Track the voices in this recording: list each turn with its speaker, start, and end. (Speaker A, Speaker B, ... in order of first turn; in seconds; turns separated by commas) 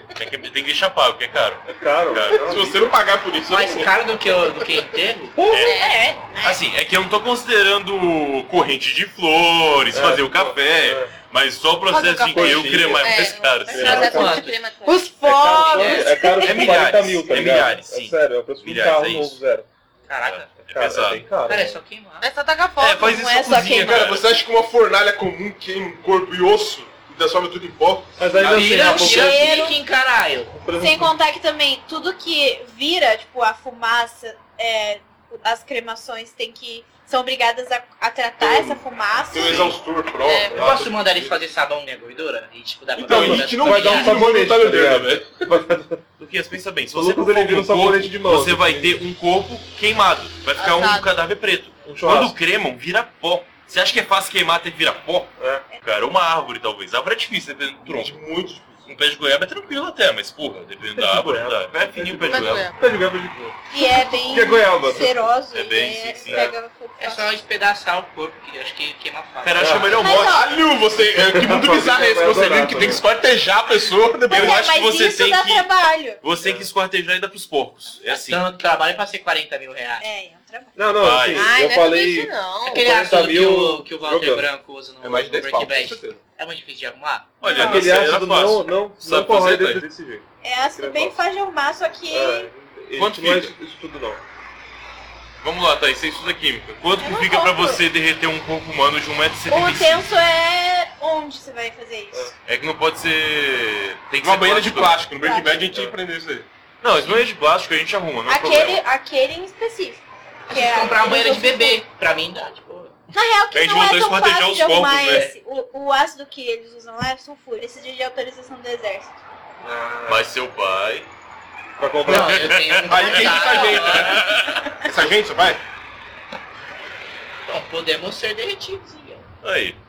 Speaker A: 0.2-2.6, Speaker B: 1.7-2.9, Speaker C: 2.3-4.0, Speaker D: 3.5-5.4, Speaker B: 5.4-5.7, Speaker A: 5.5-5.8, Speaker E: 5.5-6.2, Speaker F: 6.3-6.6, Speaker A: 6.4-14.2, Speaker B: 9.9-11.1, Speaker G: 11.9-12.6, Speaker B: 12.2-14.5, Speaker E: 13.0-15.1, Speaker D: 13.7-14.5, Speaker F: 14.9-16.7, Speaker B: 15.2-19.7, Speaker A: 16.4-19.4, Speaker D: 20.1-20.5, Speaker A: 20.2-21.3, Speaker B: 20.6-21.8, Speaker D: 21.5-22.2, Speaker G: 22.2-23.2, Speaker A: 22.8-24.3, Speaker F: 23.0-24.1, Speaker C: 23.7-28.2, Speaker B: 28.2-29.7, Speaker D: 28.4-30.5, Speaker F: 28.6-29.8, Speaker B: 30.5-31.2, Speaker F: 30.8-39.8, Speaker C: 38.4-41.4, Speaker E: 40.2-40.6, Speaker D: 40.5-44.2, Speaker C: 43.0-45.4, Speaker B: 43.0-46.0, Speaker A: 46.2-58.2, Speaker B: 46.9-49.0, Speaker G: 50.5-51.1, Speaker B: 51.9-52.4, Speaker B: 55.4-55.6, Speaker C: 57.8-58.9, Speaker A: 58.9-62.7, Speaker B: 60.9-65.2, Speaker G: 62.2-62.7, Speaker F: 63.7-67.3, Speaker A: 65.5-66.5, Speaker B: 66.3-66.5, Speaker D: 67.0-69.9, Speaker A: 69.4-70.5, Speaker B: 69.6-70.1, Speaker F: 69.9-70.5, Speaker C: 70.1-74.7, Speaker B: 71.2-73.0, Speaker F: 74.3-76.2, Speaker A: 74.3-78.4, Speaker B: 76.4-76.7, Speaker D: 78.0-80.0, Speaker F: 80.0-80.9, Speaker B: 80.8-84.5, Speaker A: 81.0-81.5, Speaker E: 81.3-82.9, Speaker D: 82.7-87.4, Speaker C: 85.0-86.2, Speaker A: 87.4-89.8, Speaker F: 87.4-87.9, Speaker B: 87.5-91.2, Speaker F: 90.4-92.5, Speaker B: 92.1-94.2, Speaker A: 93.0-93.5, Speaker A: 95.4-100.1, Speaker F: 97.0-97.8, Speaker F: 99.5-102.3, Speaker A: 102.5-105.0, Speaker C: 104.2-106.5, Speaker F: 105.2-105.7, Speaker A: 106.8-108.8, Speaker F: 108.2-111.8, Speaker D: 110.5-112.9, Speaker F: 113.1-119.2, Speaker A: 113.5-115.3, Speaker B: 119.6-120.2, Speaker A: 120.0-121.1, Speaker B: 121.8-122.5, Speaker D: 122.0-124.3, Speaker A: 122.1-124.8, Speaker C: 122.9-125.6, Speaker D: 127.5-129.2, Speaker A: 129.4-129.8